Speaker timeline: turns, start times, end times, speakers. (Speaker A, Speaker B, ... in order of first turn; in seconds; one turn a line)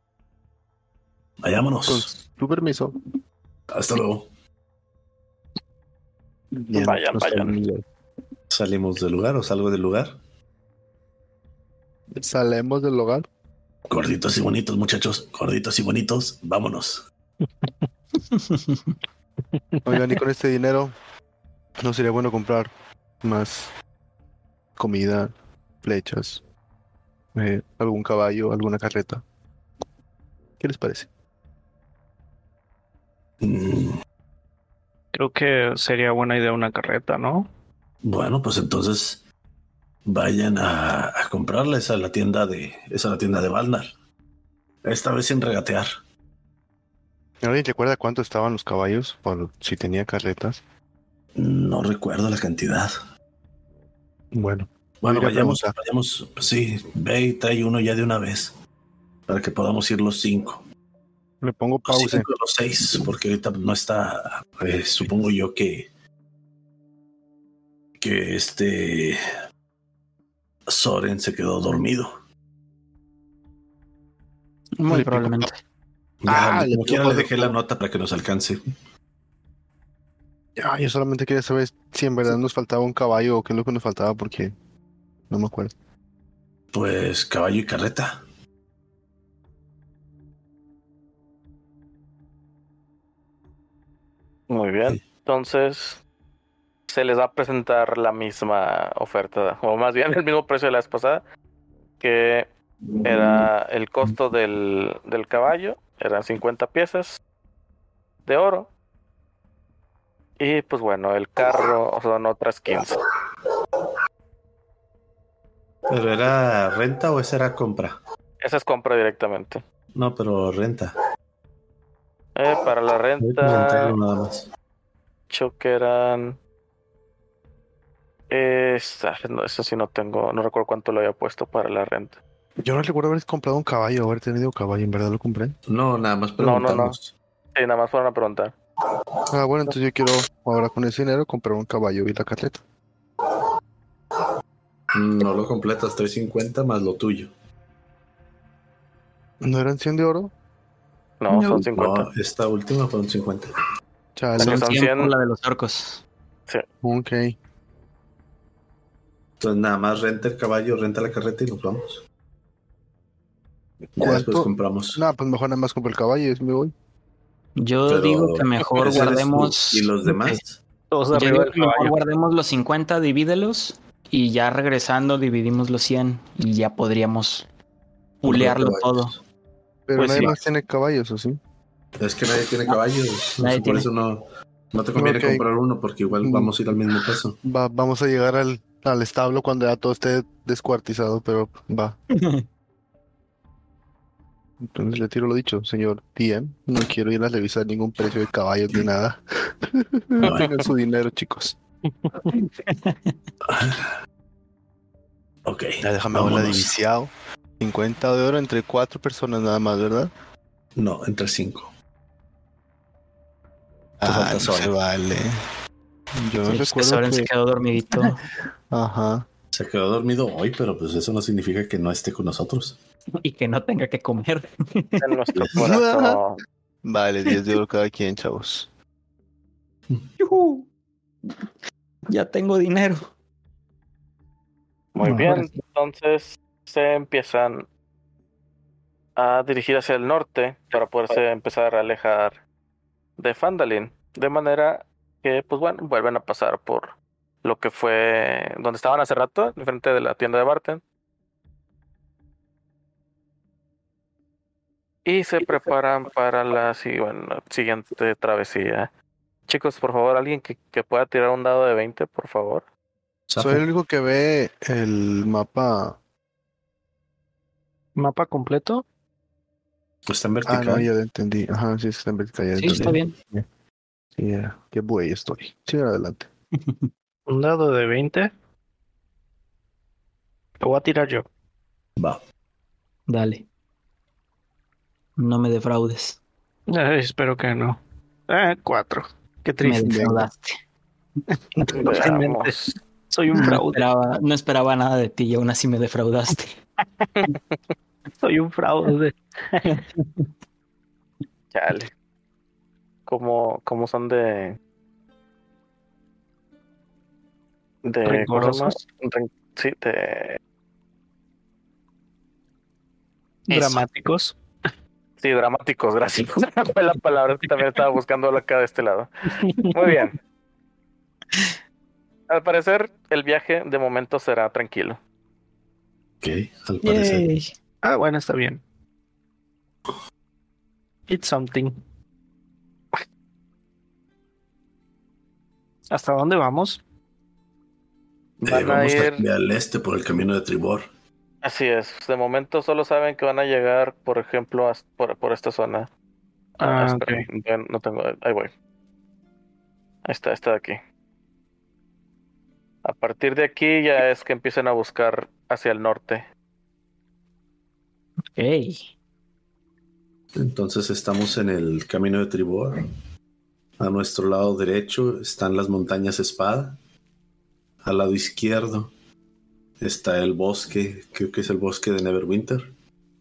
Speaker A: 1.4-2.1
Speaker B: 1.9-2.9
Speaker A: 3.7-4.3
Speaker B: 6.5-7.8
Speaker C: 6.7-7.6
Speaker A: 8.5-10.2
Speaker B: 12.1-13.3
Speaker A: 13.9-17.0
Speaker D: 18.2-19.0
Speaker E: 19.5-19.9
Speaker B: 19.9-20.9
Speaker B: 21.8-22.7
Speaker B: 23.2-23.7
Speaker B: 24.8-26.4
Speaker B: 27.3-29.2
Speaker B: 30.6-31.1
Speaker A: 33.4-34.0
Speaker E: 35.1-37.5
Speaker A: 38.0-39.2
Speaker A: 40.0-43.9
Speaker A: 44.8-45.9
Speaker B: 47.4-50.6
Speaker A: 51.4-52.9
Speaker B: 54.3-55.7
Speaker A: 55.0-58.5
Speaker A: 59.3-60.6
Speaker B: 61.4-62.3
Speaker A: 61.8-65.9
Speaker A: 68.0-69.2
Speaker A: 70.7-72.1
Speaker D: 74.8-75.5
Speaker B: 74.9-75.5
Speaker A: 76.2-78.6
Speaker B: 76.3-77.5
Speaker B: 80.6-84.5
Speaker B: 85.3-85.7
Speaker A: 86.7-88.2
Speaker C: 94.5-96.0
Speaker C: 96.9-101.2
Speaker C: 102.0-102.5
Speaker A: 102.9-103.4
Speaker C: 103.0-107.2
Speaker C: 108.2-108.7
Speaker C: 110.4-113.0
Speaker A: 115.9-118.0
Speaker C: 118.4-119.6
Speaker A: 119.9-120.9
Speaker C: 122.3-123.9
Speaker A: 123.2-124.5
Speaker C: 125.3-126.4
Speaker C: 128.3-132.2
Speaker B: 132.6-135.6
Speaker A: 135.7-137.1
Speaker C: 136.4-136.9
Speaker C: 137.5-138.5
Speaker B: 139.3-142.6
Speaker A: 144.9-147.3
Speaker B: 149.4-150.3
Speaker C: 151.2-152.1
Speaker A: 151.3-153.5
Speaker B: 154.2-154.6
Speaker C: 154.4-155.1
Speaker D: 154.4-156.0
Speaker B: 156.8-157.3
Speaker A: 159.4-162.0
Speaker A: 163.9-165.0
Speaker B: 164.0-166.7
Speaker D: 167.6-170.4
Speaker A: 167.9-170.6
Speaker E: 170.9-172.0
Speaker D: 171.1-177.5
Speaker D: 178.2-179.1
Speaker A: 178.2-179.2
Speaker B: 179.9-181.4
Speaker D: 180.0-180.3
Speaker A: 182.0-187.4
Speaker D: 183.4-183.8
Speaker B: 184.9-185.4
Speaker B: 186.2-186.5
Speaker B: 187.4-192.0
Speaker B: 194.6-201.6
Speaker A: 200.2-200.6
Speaker E: 202.0-202.3
Speaker D: 202.3-203.1
Speaker A: 203.5-203.9
Speaker A: 205.4-206.7
Speaker B: 205.8-210.1
Speaker A: 210.8-211.7
Speaker B: 214.0-215.4
Speaker A: 214.0-214.7
Speaker B: 216.2-217.3
Speaker D: 216.5-218.2
Speaker B: 218.7-219.3
Speaker A: 219.5-222.8
Speaker D: 223.2-225.0
Speaker C: 225.0-226.4
Speaker B: 225.6-226.2
Speaker B: 226.8-228.7
Speaker D: 230.2-230.7
Speaker D: 232.1-233.1
Speaker C: 234.9-237.7
Speaker D: 235.0-235.5
Speaker C: 239.2-242.4
Speaker C: 243.2-250.8
Speaker C: 255.0-258.9
Speaker C: 259.5-262.6
Speaker A: 263.3-263.6
Speaker B: 263.4-266.0
Speaker E: 267.9-268.8
Speaker A: 270.1-270.9
Speaker B: 270.4-273.5
Speaker D: 272.6-273.1
Speaker A: 272.7-272.9
Speaker B: 274.2-276.3
Speaker E: 277.3-278.3
Speaker E: 280.6-281.2
Speaker D: 283.1-283.4
Speaker D: 285.2-286.2
Speaker E: 286.7-290.2
Speaker D: 289.6-290.6
Speaker B: 289.9-290.2
Speaker C: 291.8-292.8
Speaker E: 291.9-292.6
Speaker E: 293.1-293.8
Speaker D: 293.3-296.6
Speaker C: 297.2-297.6
Speaker E: 298.2-299.8
Speaker D: 299.8-300.3
Speaker C: 301.5-301.9
Speaker C: 303.1-304.6
Speaker C: 307.8-310.4
Speaker E: 308.1-308.8
Speaker E: 313.5-314.4
Speaker D: 313.5-313.8
Speaker C: 315.2-319.1
Speaker E: 319.4-319.9
Speaker C: 319.7-320.2
Speaker C: 322.3-325.0
Speaker A: 326.2-327.3
Speaker D: 326.8-327.5
Speaker E: 327.8-328.6
Speaker E: 331.1-331.8
Speaker E: 335.9-336.8
Speaker A: 338.4-340.9
Speaker C: 338.4-339.2
Speaker C: 341.4-345.9
Speaker C: 346.6-348.5
Speaker E: 346.6-347.3
Speaker C: 350.0-350.8
Speaker C: 352.8-356.3
Speaker D: 358.3-358.9
Speaker A: 360.4-362.9
Speaker A: 363.8-366.8
Speaker A: 367.8-368.9
Speaker A: 369.8-372.7